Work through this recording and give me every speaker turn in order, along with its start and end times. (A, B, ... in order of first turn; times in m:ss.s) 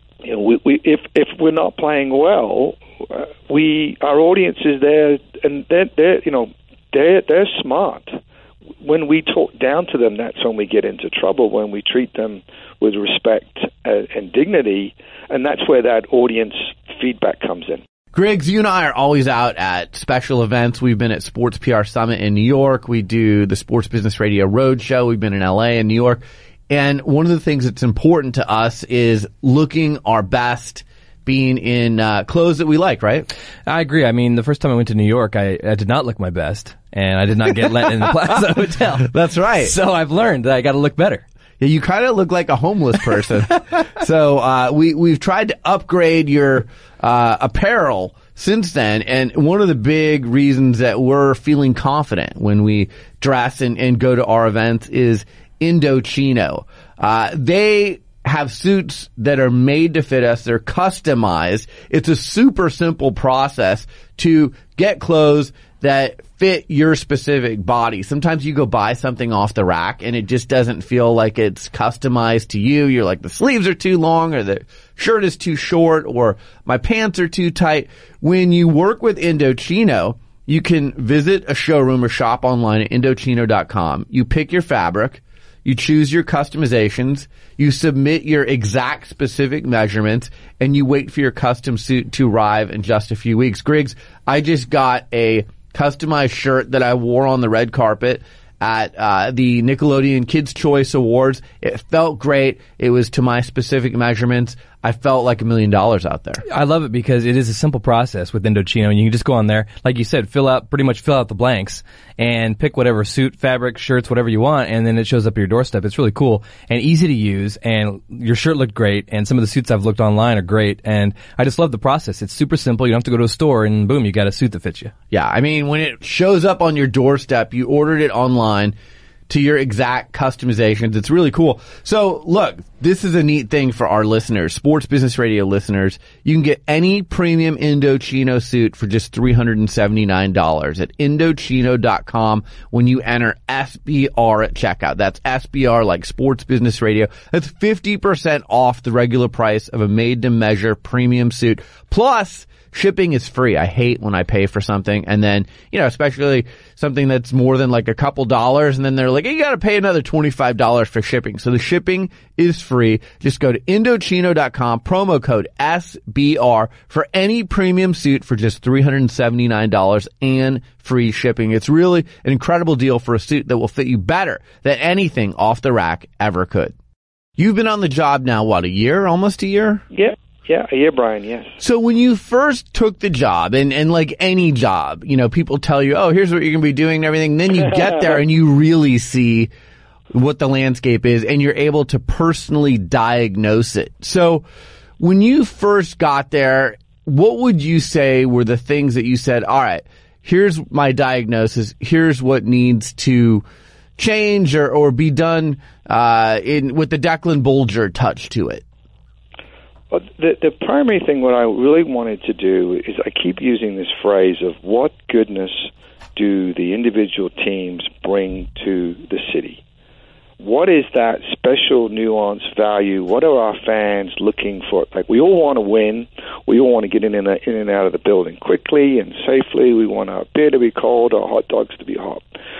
0:00.2-0:08.2 A
0:08.8-0:17.8 A
0:18.1-0:33.3 B
0:33.6-0:41.2 C
0:39.0-0:39.7 B
0:41.6-1:46.4 B
1:46.5-2:04.9 C
2:05.1-2:08.7 B
2:09.3-2:56.7 B
2:57.4-2:59.8 B
2:59.9-3:01.5 A
3:01.6-3:09.5 B
3:10.1-3:14.4 B
3:15.0-3:23.4 B
3:24.0-3:28.6 B
3:29.9-3:39.6 A
3:40.4-3:52.2 A